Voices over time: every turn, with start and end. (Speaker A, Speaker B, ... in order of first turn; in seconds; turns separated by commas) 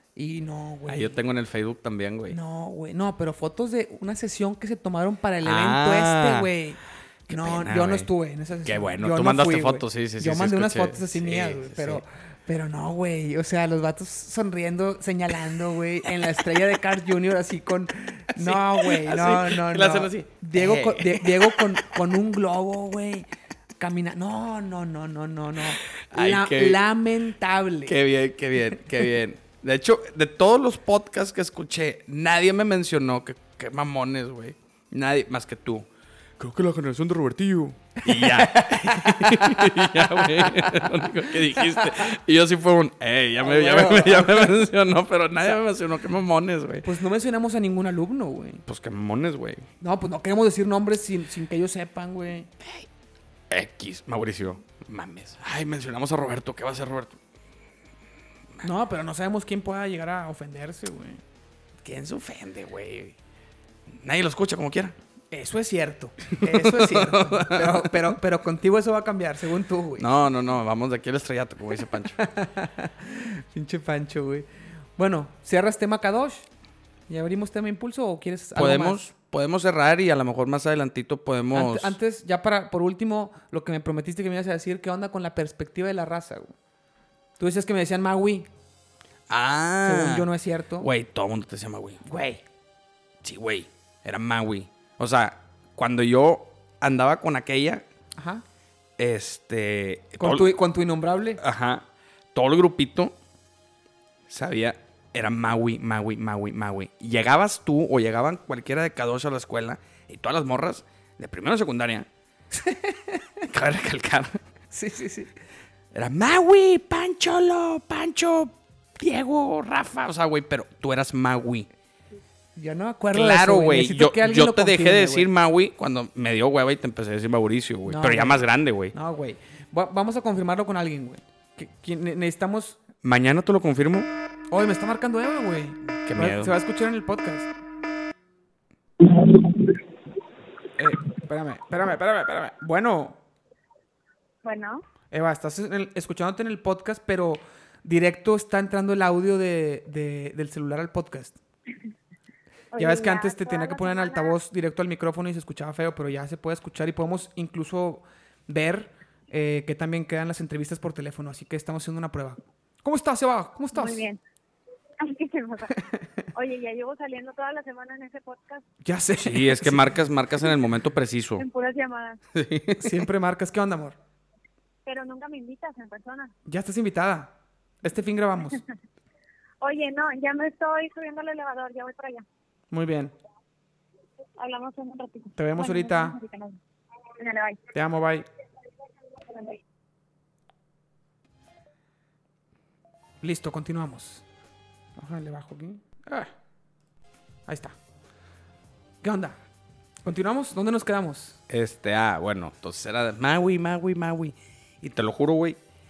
Speaker A: 0.1-1.2, Speaker B: 0.9-2.4, Speaker A: 2.3-28.0, Speaker B: 5.4-6.5, Speaker B: 7.3-8.1, Speaker B: 8.6-12.0, Speaker B: 18.3-21.9, Speaker B: 26.0-26.8, Speaker B: 27.9-35.9, Speaker B: 36.4-46.9, Speaker A: 38.0-40.9, Speaker A: 43.4-44.6, Speaker A: 46.8-48.6, Speaker B: 48.6-49.7, Speaker A: 49.8-52.5, Speaker B: 53.5-57.2, Speaker A: 58.6-61.2, Speaker B: 61.8-63.2, Speaker B: 63.9-65.0, Speaker A: 65.3-70.1, Speaker B: 66.3-68.1, Speaker B: 70.0-72.2, Speaker A: 72.1-76.5, Speaker A: 77.1-79.0, Speaker B: 78.5-82.0, Speaker A: 81.5-86.5, Speaker A: 87.4-88.5, Speaker B: 89.3-90.3, Speaker A: 89.8-90.9, Speaker B: 90.8-92.0, Speaker A: 92.0-92.4, Speaker B: 93.2-97.8, Speaker A: 98.2-98.4, Speaker B: 99.0-100.6, Speaker A: 100.2-101.4, Speaker B: 101.4-103.2, Speaker B: 104.3-112.1, Speaker A: 112.5-113.4, Speaker B: 113.5-114.4, Speaker A: 114.7-115.3, Speaker B: 115.9-121.7, Speaker A: 122.5-125.3, Speaker B: 123.1-128.9, Speaker A: 127.8-132.8, Speaker B: 133.0-134.1, Speaker A: 134.5-137.5, Speaker B: 136.0-136.5, Speaker A: 140.8-143.2, Speaker C: 144.4-144.8, Speaker A: 145.1-151.4, Speaker C: 152.7-154.4, Speaker A: 152.8-164.0, Speaker C: 163.7-164.2, Speaker C: 165.0-165.8, Speaker C: 166.3-168.6, Speaker A: 168.8-169.9, Speaker B: 169.2-171.4, Speaker C: 171.4-172.2, Speaker B: 172.3-173.0, Speaker A: 172.8-174.0, Speaker C: 174.8-176.3, Speaker A: 176.4-178.6, Speaker C: 179.6-182.2, Speaker A: 182.7-183.1, Speaker C: 184.4-186.6, Speaker A: 185.3-186.1, Speaker C: 187.2-187.6, Speaker A: 187.7-188.2, Speaker A: 193.2-194.2, Speaker A: 195.0-196.3, Speaker A: 197.5-197.8, Speaker A: 199.0-199.4, Speaker A: 200.0-201.4, Speaker B: 201.5-205.6